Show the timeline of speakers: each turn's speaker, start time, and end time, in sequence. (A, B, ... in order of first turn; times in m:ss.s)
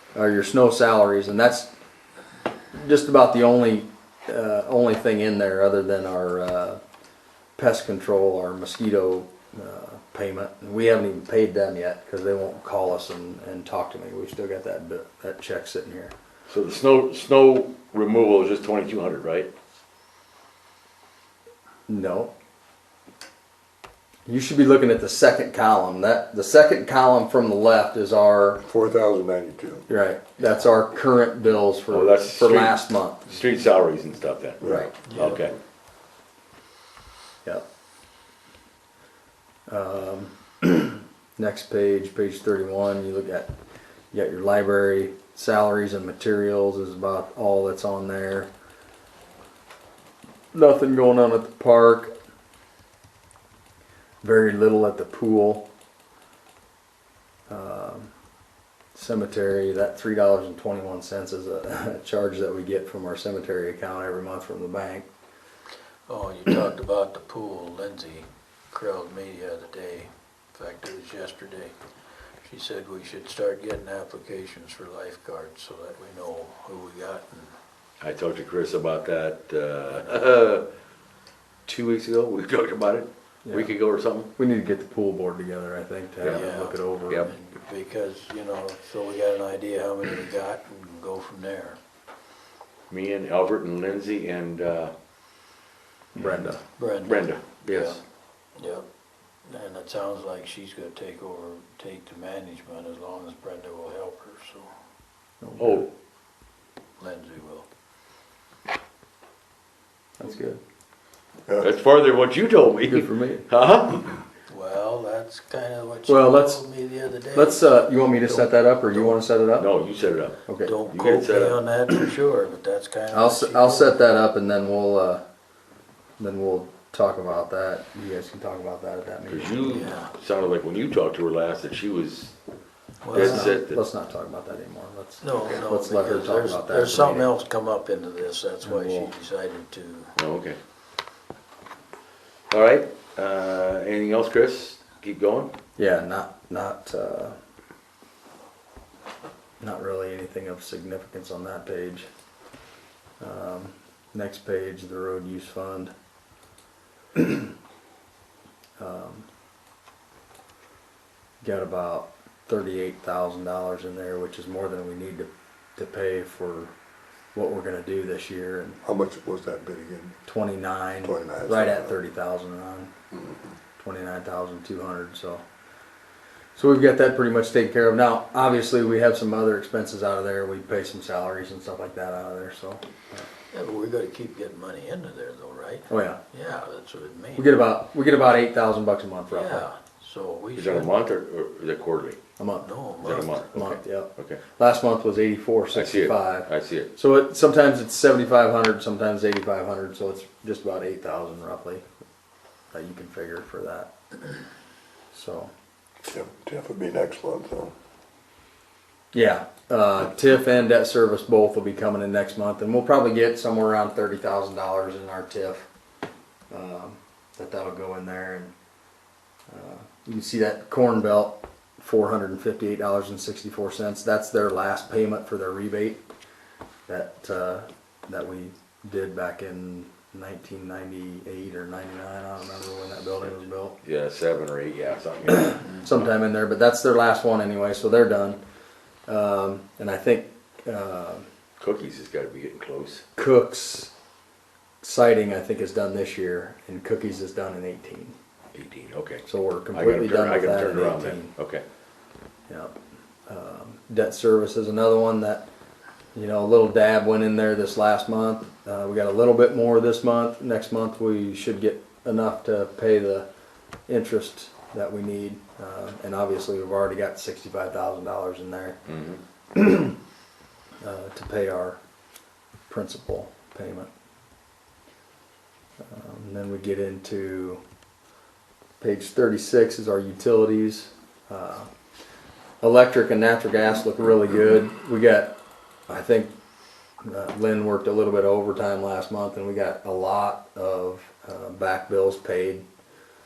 0:00.2-0:01.7 A
0:02.7-0:06.8 A
0:07.6-0:16.1 A
0:16.5-0:19.5 B
0:21.9-0:22.3 A
0:24.3-0:28.6 A
0:28.6-0:29.8 C
0:29.9-0:33.3 A
0:31.9-0:32.8 B
0:33.3-0:35.6 B
0:34.6-0:34.9 A
0:35.0-0:35.4 D
0:39.7-0:43.5 A
0:44.1-0:48.5 A
0:50.5-0:52.1 A
0:54.2-0:55.7 A
0:57.5-0:58.1 A
0:58.9-1:05.1 A
1:06.1-1:11.8 D
1:12.4-1:17.5 D
1:18.0-1:20.6 B
1:19.9-1:20.2 D
1:21.6-1:24.3 B
1:23.4-1:23.7 A
1:24.4-1:27.3 A
1:26.2-1:31.8 D
1:32.9-1:34.9 B
1:36.1-1:36.6 A
1:36.8-1:38.0 D
1:37.0-1:38.0 B
1:38.6-1:38.8 D
1:39.4-1:44.7 D
1:45.4-1:45.9 A
1:45.6-1:45.9 B
1:47.0-1:47.6 D
1:50.2-1:50.6 A
1:51.5-1:54.0 B
1:52.9-1:53.5 A
1:54.5-1:59.2 D
1:56.1-1:56.6 A
1:57.3-1:59.7 A
1:59.6-2:01.6 B
2:00.5-2:00.7 A
2:00.6-2:04.0 D
2:03.1-2:05.2 A
2:06.2-2:09.7 A
2:09.3-2:12.3 B
2:09.6-2:10.1 D
2:13.0-2:13.6 D
2:13.1-2:13.8 B
2:13.1-2:17.3 A
2:15.2-2:20.1 D
2:18.6-2:19.1 A
2:20.2-2:20.6 B
2:22.5-2:25.5 B
2:25.8-2:27.4 A
2:29.6-2:32.1 A
2:33.2-2:35.9 A
2:37.2-2:37.5 A
2:38.8-2:39.2 A
2:41.4-2:46.7 A
2:47.3-2:48.8 A
2:48.8-2:50.1 C
2:50.3-2:52.9 A
2:51.0-2:51.9 C
2:53.8-2:55.4 A
2:56.6-3:03.2 A
3:03.5-3:07.6 D
3:05.9-3:06.2 A
3:07.4-3:09.6 A
3:09.3-3:11.0 D
3:10.5-3:12.2 B
3:12.4-3:21.8 A
3:12.6-3:13.5 D
3:13.0-3:13.6 B
3:15.8-3:16.9 B
3:22.7-3:23.9 A
3:25.1-3:25.5 A
3:26.1-3:27.7 C
3:29.1-3:35.7 A
3:36.5-3:38.5 A
3:39.5-3:46.0 A
3:46.9-3:53.8 A
3:53.8-3:55.8 B
3:55.3-3:58.4 A
3:59.1-4:01.2 A
4:01.6-4:03.0 B
4:03.2-4:03.9 A
4:04.8-4:08.1 A
4:08.5-4:11.6 B
4:09.3-4:11.3 A
4:12.5-4:12.8 A
4:13.3-4:15.5 A
4:16.1-4:23.3 A
4:23.9-4:28.8 A
4:28.9-4:29.2 B
4:29.6-4:30.0 A
4:30.8-4:31.8 A
4:32.7-4:33.9 A
4:35.8-4:37.6 A
4:38.8-4:41.7 A
4:42.6-4:45.4 A
4:45.9-4:46.3 A
4:47.0-4:52.6 A